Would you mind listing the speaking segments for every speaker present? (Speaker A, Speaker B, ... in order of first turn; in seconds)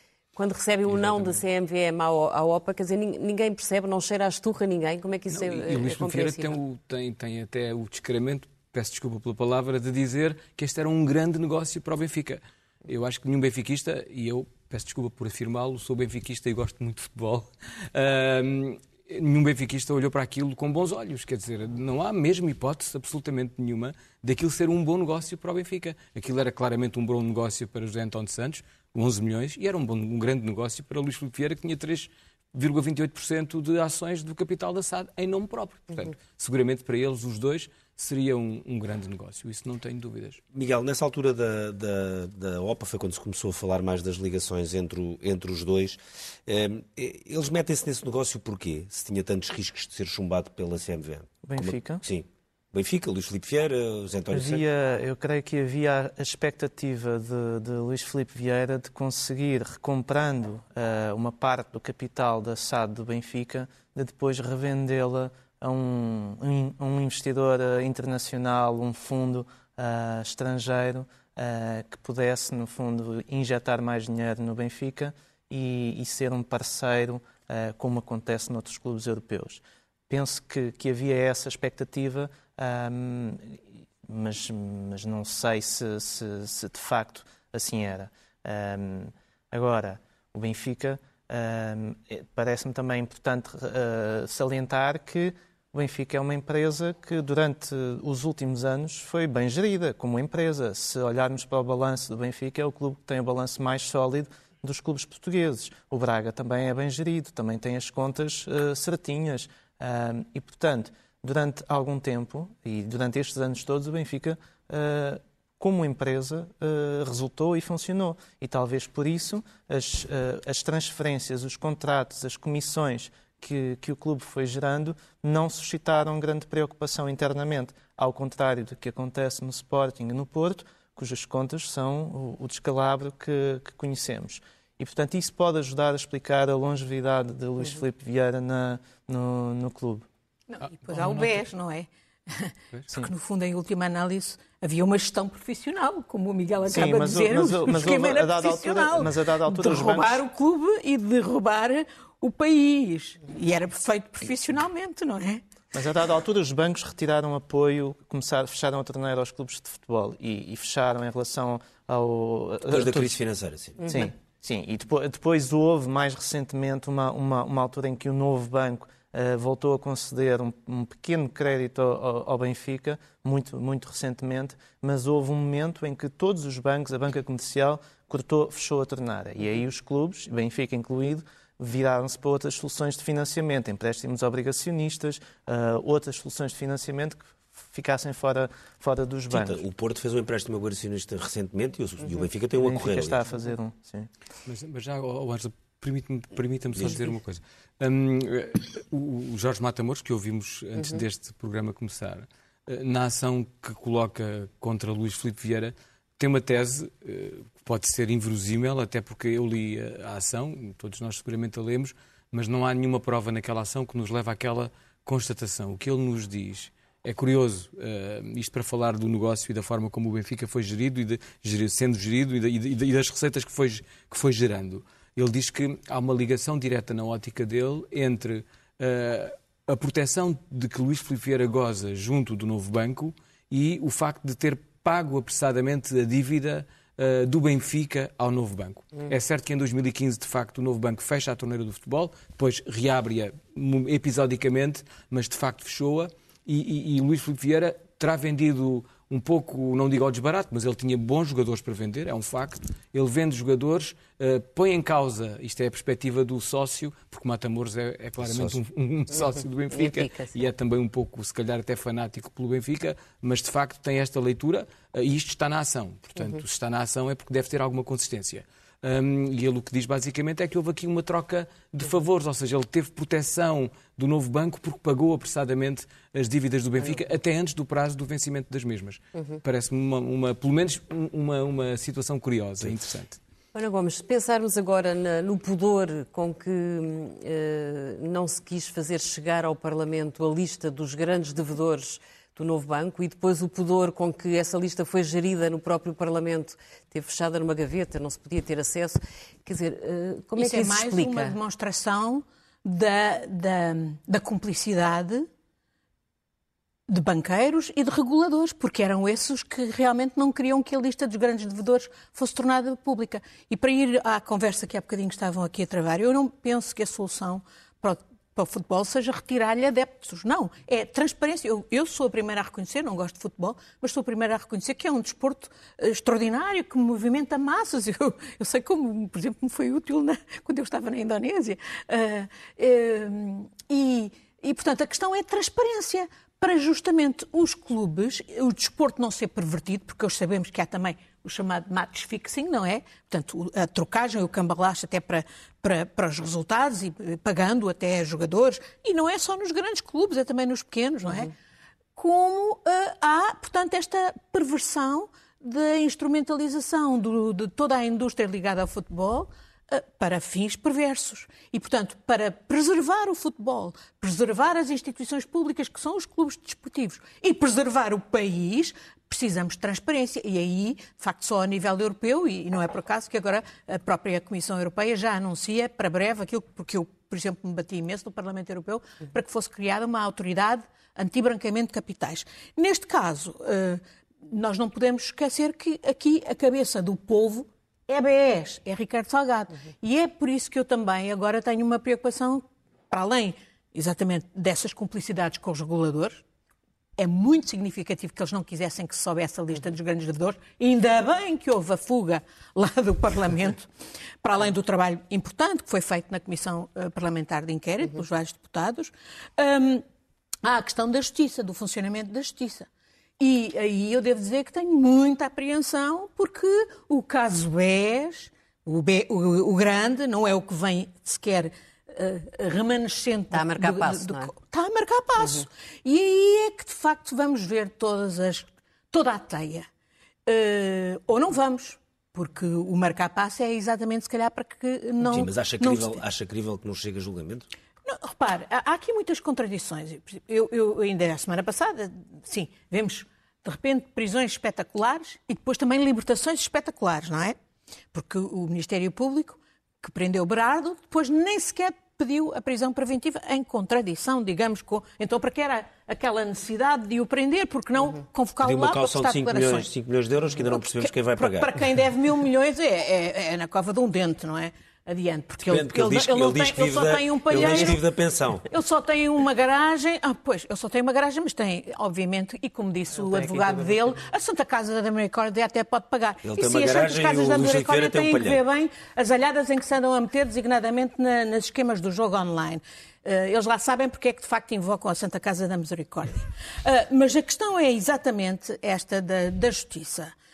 Speaker A: 0.3-6.5, 259.7-260.4, 283.5-301.4, 423.3-424.3
Speaker B: 0.9-1.4, 5.3-40.4, 140.9-141.3, 194.4-283.2
Speaker C: 40.5-54.6, 162.7-164.0, 189.3-193.2, 258.2-258.6, 435.0-437.5, 458.4-461.6, 465.4-468.5, 476.2-478.4
Speaker D: 51.4-52.0, 54.3-140.1, 146.7-150.2, 155.7-163.2, 163.8-189.6, 192.6-194.1, 473.3-473.7
Speaker E: 140.5-155.4, 300.4-305.3, 306.9-351.3, 351.9-396.2, 397.0-403.7, 404.2-409.8, 410.4-412.7, 413.2-429.7, 430.2-436.0, 437.8-447.4, 447.9-459.7, 460.4-467.9, 468.4-490.1